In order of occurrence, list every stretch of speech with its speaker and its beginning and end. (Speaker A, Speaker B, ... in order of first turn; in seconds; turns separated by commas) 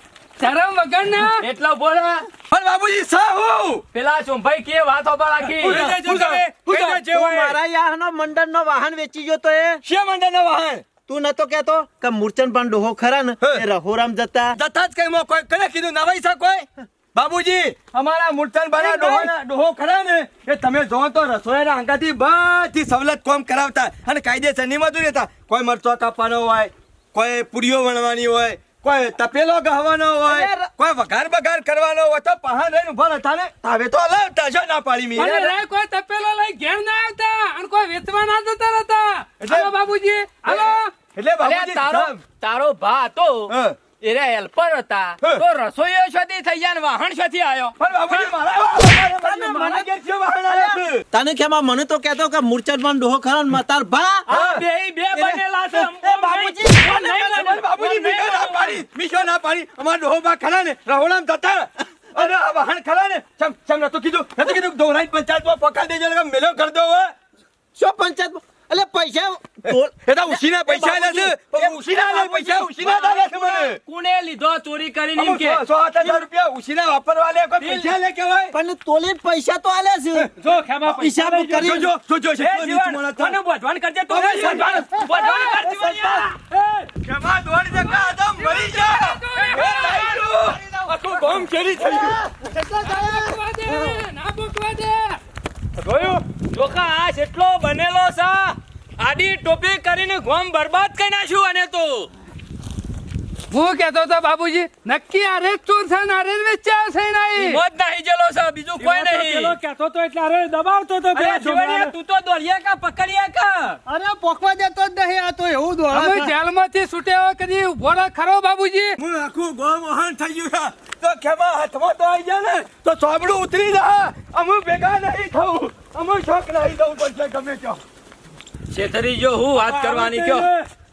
Speaker A: 0.4-1.5, Speaker B: 1.4-2.3, Speaker C: 2.4-3.9, Speaker B: 3.9-5.9, Speaker C: 5.6-6.4, Speaker D: 5.6-7.6, Speaker E: 6.7-9.8, Speaker C: 9.8-10.9, Speaker E: 11.1-14.6, Speaker C: 14.5-35.6, Speaker E: 18.8-19.3, Speaker E: 30.3-30.7, Speaker A: 35.2-40.9, Speaker C: 39.4-39.7, Speaker C: 40.5-42.2, Speaker B: 41.4-47.8, Speaker C: 43.5-43.8, Speaker C: 47.8-51.0, Speaker E: 48.1-49.9, Speaker E: 50.5-54.3, Speaker B: 54.3-58.9, Speaker C: 54.3-54.6, Speaker E: 55.2-57.5, Speaker C: 56.9-67.1, Speaker E: 67.8-73.2, Speaker C: 69.7-73.8, Speaker B: 72.8-76.2, Speaker C: 75.2-78.5, Speaker B: 77.6-77.9, Speaker E: 78.5-80.3, Speaker D: 80.4-81.9, Speaker E: 80.8-81.9, Speaker C: 81.6-83.4, Speaker B: 82.3-86.3, Speaker C: 84.1-86.2, Speaker F: 84.7-85.1, Speaker A: 85.1-85.4, Speaker E: 85.7-86.2, Speaker D: 86.4-86.9, Speaker C: 87.0-92.2, Speaker A: 88.3-90.2, Speaker B: 89.4-90.2, Speaker F: 89.9-90.9, Speaker F: 91.8-93.4, Speaker A: 92.8-95.2, Speaker D: 95.8-96.2, Speaker B: 96.0-102.1, Speaker A: 103.5-107.6, Speaker B: 107.4-109.5, Speaker D: 108.8-111.9, Speaker B: 111.1-113.8, Speaker F: 113.9-116.3, Speaker A: 115.9-119.0, Speaker C: 119.0-127.8, Speaker B: 128.7-130.5, Speaker D: 129.6-130.7